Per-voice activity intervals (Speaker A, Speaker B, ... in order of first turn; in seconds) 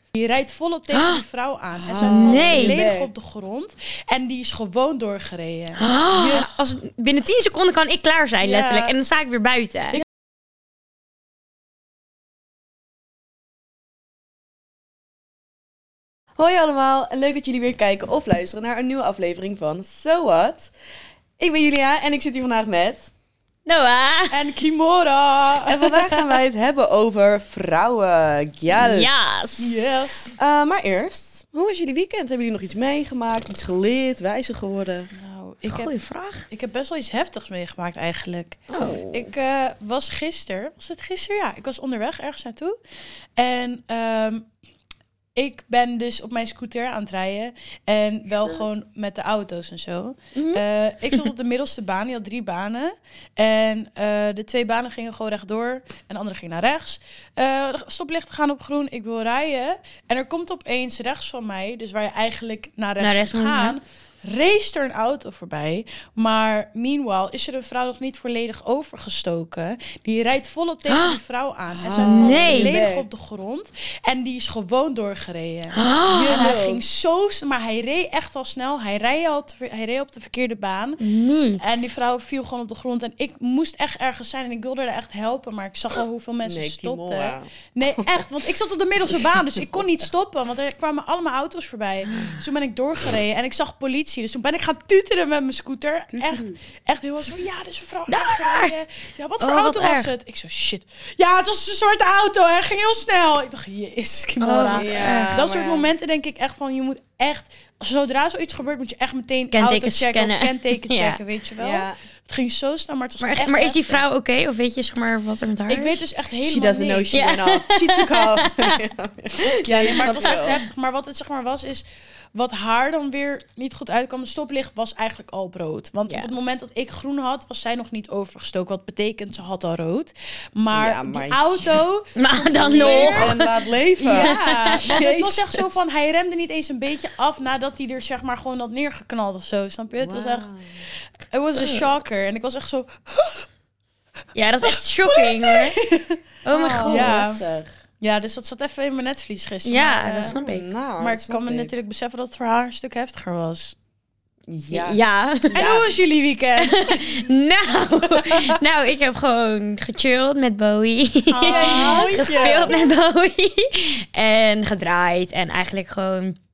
Speaker A: 0.1-6.5, 8.4-8.9, 24.3-26.3, 29.6-30.3, 35.1-35.9, 36.5-42.8, 43.4-44.5, 45.4-81.0, 81.6-114.0, 115.7-117.1, 119.6-133.4, 134.0-140.5, 141.3-143.4, 144.6-146.2, 146.8-150.3, 151.0-153.7, 155.5-157.2, 158.1-158.6, 161.3-162.8
Speaker B: 0.9-1.2, 2.0-2.8, 5.8-10.0, 23.6-24.4, 28.7-29.8, 35.7-36.5, 38.7-39.0, 63.0-63.8, 70.9-71.2, 71.9-72.8, 75.7-76.6, 81.0-81.9, 98.1-98.7, 99.4-100.1, 104.4-105.4, 109.5-111.2, 113.2-116.0, 117.1-118.8, 119.9-120.5, 132.2-133.4, 134.1-135.6, 141.6-141.8, 144.3-145.8, 146.4-147.5, 149.6-150.7, 154.7-155.8, 156.6-166.4
Speaker C: 1.8-3.1, 16.4-20.7, 21.4-23.1, 25.6-29.1, 30.4-35.1, 38.7-39.3, 50.3-50.6, 71.8-73.1, 76.3-76.8, 86.4-88.2, 89.0-89.9, 96.1-96.6, 104.7-105.9, 111.6-112.0, 116.4-120.6, 130.7-131.8, 132.5-134.3, 140.0-140.8, 146.5-147.7, 150.3-151.7, 154.5-155.9, 161.4-162.9